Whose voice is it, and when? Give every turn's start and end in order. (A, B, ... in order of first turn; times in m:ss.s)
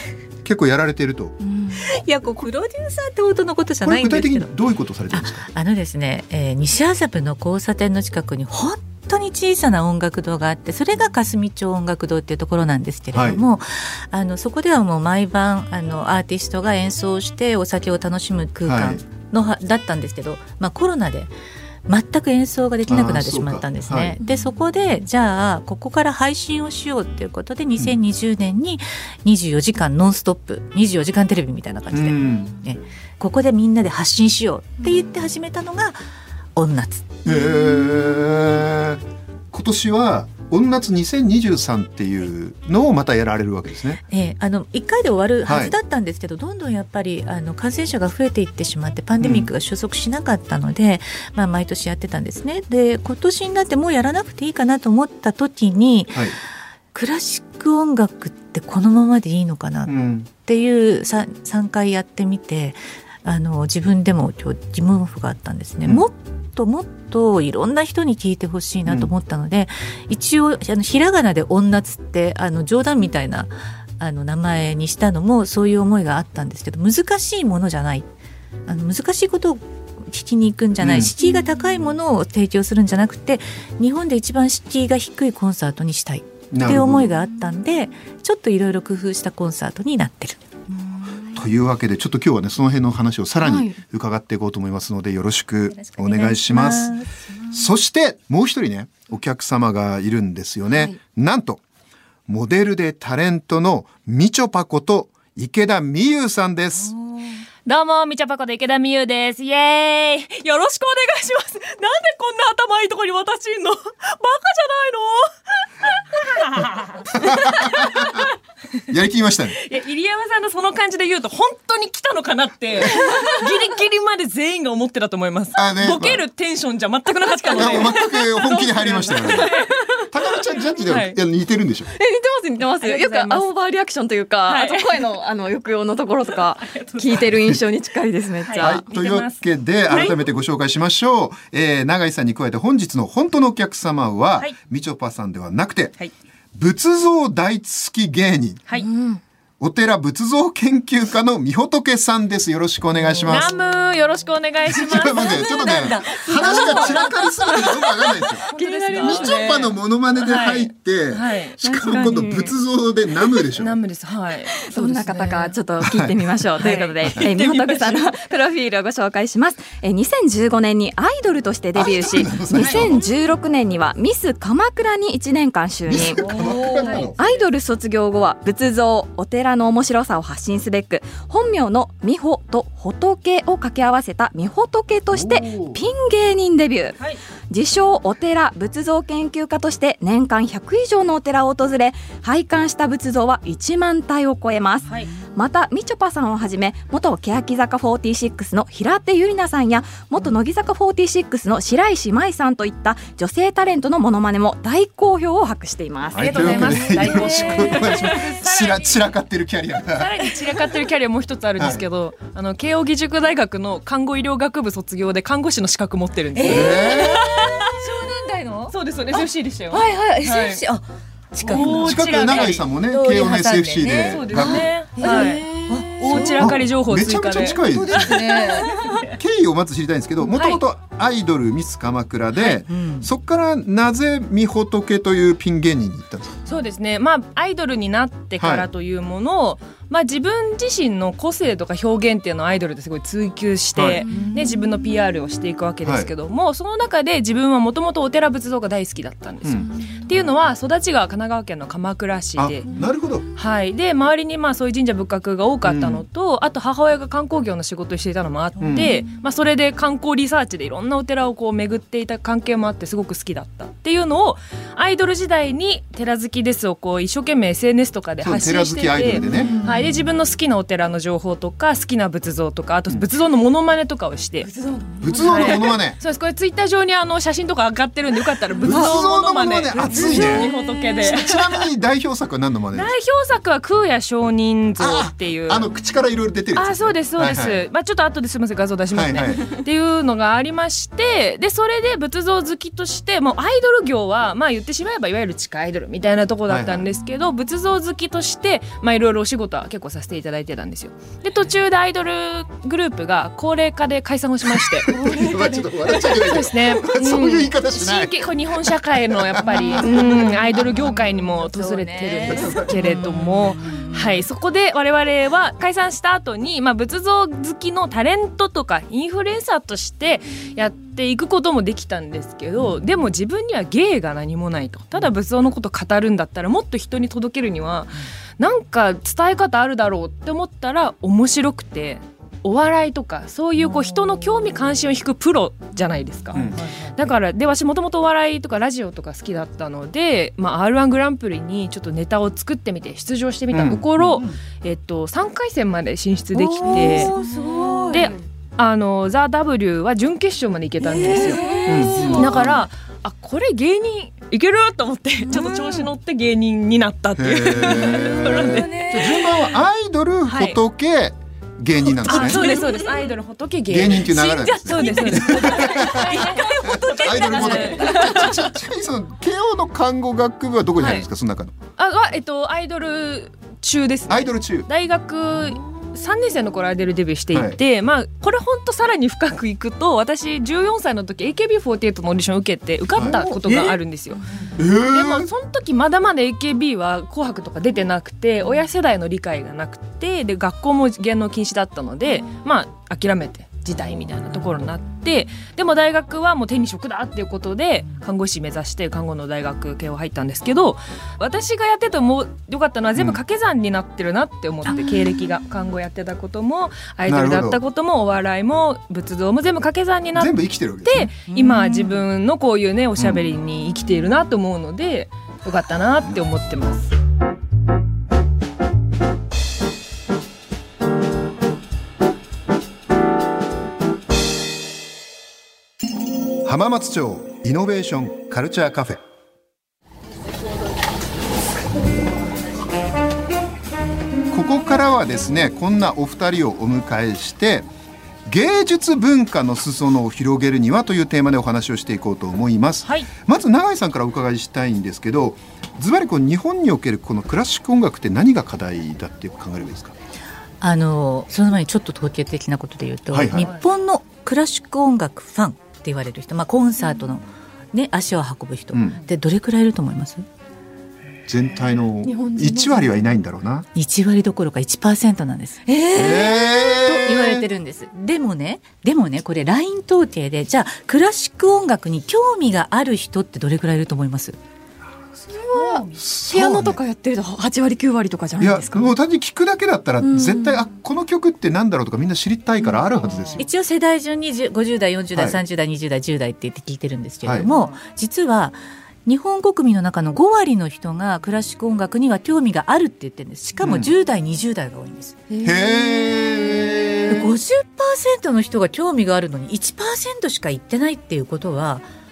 0:00.4-0:01.4 A
0:01.4-0:01.8 B
0:01.8-0:04.5 C
0:03.8-0:05.4 A
0:05.1-0:21.3 C
0:13.1-0:13.4 A
0:18.7-0:19.0 A
0:21.9-0:36.0 C
0:22.9-0:24.2 A
0:31.9-0:32.6 A
0:36.6-0:37.1 C
0:37.2-0:44.0 A
0:44.1-0:56.3 C
0:45.4-0:45.7 A
0:49.2-0:49.5 A
0:56.1-0:56.4 A
0:56.9-1:18.1 C
0:59.8-1:00.3 A
1:08.8-1:09.1 A
1:18.7-1:30.4 C
1:20.8-1:21.1 A
1:26.5-1:27.1 A
1:31.3-1:36.9 A
1:33.4-1:33.8 B
1:35.7-1:37.2 C
1:37.5-1:41.6 A
1:42.3-1:46.9 A
1:47.6-1:58.2 D
1:57.1-1:58.3 A
1:58.9-1:59.6 A
1:59.5-2:11.2 D
2:05.6-2:06.2 A
2:07.5-2:11.9 A
2:09.5-2:10.0 B
2:11.9-2:18.8 B
2:12.8-2:13.5 D
2:14.5-2:15.0 D
2:16.6-2:17.3 D
2:18.4-2:20.3 D
2:18.6-2:25.9 A
2:26.5-2:28.6 A
2:28.7-2:29.2 B
2:29.6-2:33.5 A
2:33.2-2:41.6 D
2:34.7-2:38.4 A
2:35.4-2:37.1 C
2:36.3-2:36.6 B
2:38.5-2:39.5 B
2:39.0-2:43.8 A
2:41.6-2:42.5 B
2:43.5-2:44.6 D
2:44.6-2:56.3 B
2:44.7-2:45.5 C
2:45.8-2:46.2 A
2:46.6-2:48.2 D
2:51.7-2:53.0 A
2:52.6-2:53.0 D
2:55.9-2:57.2 A
2:56.2-2:57.3 D
2:56.3-2:57.0 C
2:57.2-3:07.0 B
3:05.1-3:05.8 A
3:07.5-3:26.8 B
3:26.1-3:30.2 A
3:26.2-3:29.1 D
3:26.4-3:28.1 C
3:29.9-3:37.8 D
3:31.6-3:31.8 A
3:36.3-3:46.6 C
3:36.4-3:37.2 A
3:38.7-3:40.6 D
3:41.4-3:42.7 D
3:41.5-3:44.7 A
3:43.8-3:49.1 D
3:46.1-3:48.4 A
3:47.7-3:49.0 C
3:49.0-3:56.4 A
3:50.2-3:50.6 D
3:52.3-3:53.1 C
3:56.4-4:12.7 D
3:58.4-3:58.7 A
4:03.7-4:04.2 A
4:04.1-4:04.4 C
4:05.8-4:06.1 A
4:09.4-4:09.7 A
4:12.4-4:13.3 A
4:13.4-4:34.5 D
4:15.6-4:16.0 A
4:18.6-4:18.9 A
4:28.2-4:29.5 A
4:29.2-4:30.0 C
4:35.0-4:36.0 A
4:35.0-4:41.6 D
4:35.1-4:35.6 C
4:38.6-4:40.5 A
4:39.8-4:40.5 C
4:41.0-4:42.9 A
4:42.7-4:45.7 D
4:44.8-4:47.6 A
4:46.5-5:05.0 D
4:48.9-4:49.5 A
4:56.5-4:56.9 A
5:04.5-5:10.6 A
5:05.0-5:05.6 C
5:05.9-5:47.2 D
5:09.5-5:14.2 C
5:12.2-5:13.0 A
5:36.3-5:36.6 A
5:36.3-5:36.9 C
5:43.5-5:44.4 A
5:46.3-5:48.1 C
5:47.9-5:59.5 D
5:50.8-5:52.5 C
5:51.6-5:52.6 A
5:55.3-5:55.9 C
5:57.2-6:02.6 A
5:57.6-5:59.2 C
6:00.3-6:00.6 D
6:02.0-6:08.5 D
6:02.0-6:03.1 C
6:03.7-6:11.5 A
6:04.7-6:08.2 C
6:10.8-6:11.0 D
6:11.8-6:24.2 D
6:14.1-6:14.7 A
6:17.3-6:17.6 A
6:22.9-6:23.8 A
6:24.6-6:25.3 A
6:24.7-6:56.9 D
6:42.9-6:43.2 A
6:44.6-6:45.1 C
6:47.1-6:47.6 A
6:50.1-6:51.1 A
6:51.0-6:52.0 C
6:53.0-6:53.2 A
7:06.4-7:09.0 A
7:14.3-7:17.7 A
7:18.3-7:29.9 A
7:22.8-7:23.1 D
7:30.6-7:40.2 C
7:33.1-7:33.5 A
7:33.4-7:33.6 D
7:38.7-7:39.0 A
7:41.3-7:43.6 A
7:42.0-7:42.9 B
7:43.7-7:54.4 C
7:45.8-7:46.1 B
7:45.9-7:47.4 A
7:55.3-7:58.9 B
7:55.5-7:55.9 D
7:55.9-7:56.8 A
7:58.4-8:03.4 A
8:00.0-8:00.6 B
8:03.0-8:03.4 D
8:03.4-8:15.2 C
8:05.1-8:05.4 A
8:07.4-8:07.8 D
8:13.6-8:13.9 A
8:15.3-8:16.6 B
8:15.4-8:17.3 A
8:17.1-8:21.8 C